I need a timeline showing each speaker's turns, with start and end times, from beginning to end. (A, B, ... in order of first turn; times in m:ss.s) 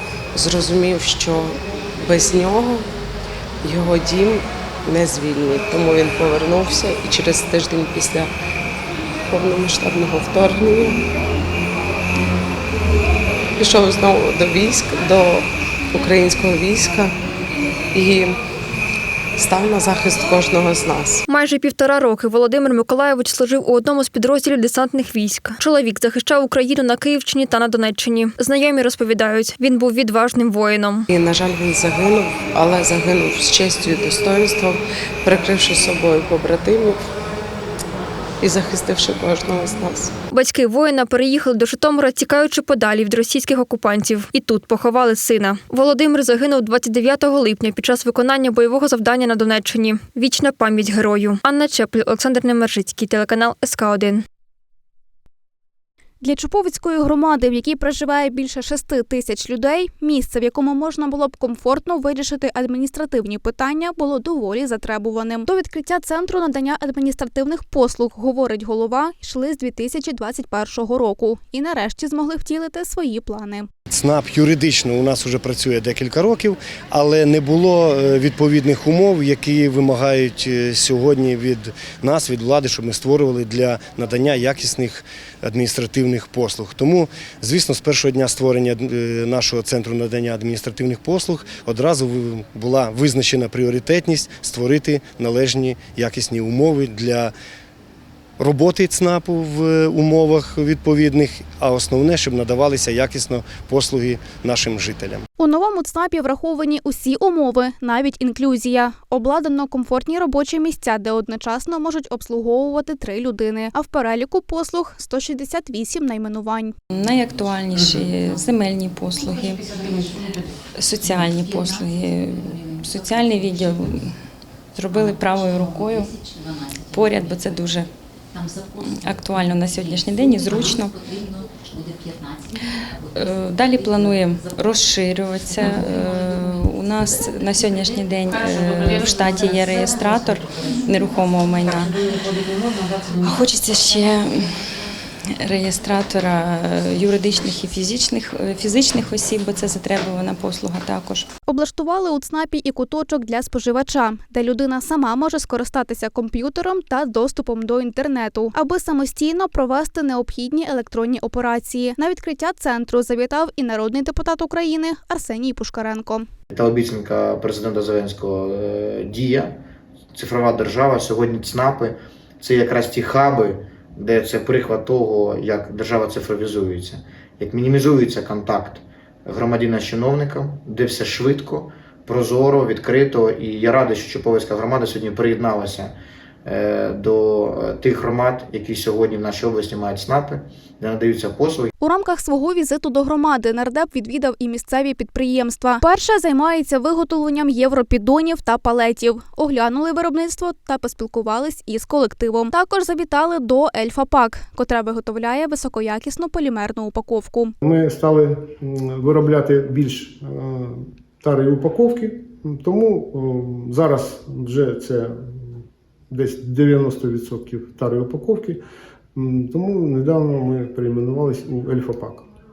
0:00.4-0:02.9 A
0:03.6-0:08.3 A
0:09.3-0:11.0 A
0:13.6-0:17.2 A
0:17.9-0:18.4 A
0:19.4-0:21.2 A
0:21.3-0:31.1 B
0:31.1-0:37.0 A
0:38.4-0:40.1 A
0:40.3-0:54.2 B
0:56.2-1:13.7 C
1:13.9-1:37.3 D
1:38.4-1:45.3 D
1:45.4-1:56.7 C
1:56.9-1:59.7 E
2:00.8-2:04.2 E
2:04.7-2:06.2 E
2:06.8-2:07.9 E
2:08.8-2:11.0 E
2:13.1-2:22.0 E
2:23.1-2:24.8 E
2:25.4-2:31.3 E
2:31.5-2:46.3 C
2:46.5-2:49.6 F
2:50.1-3:05.9 F
3:06.4-3:11.7 F
3:11.8-3:27.5 C
3:27.6-3:35.4 G
3:36.1-3:38.6 G
3:39.2-3:42.2 G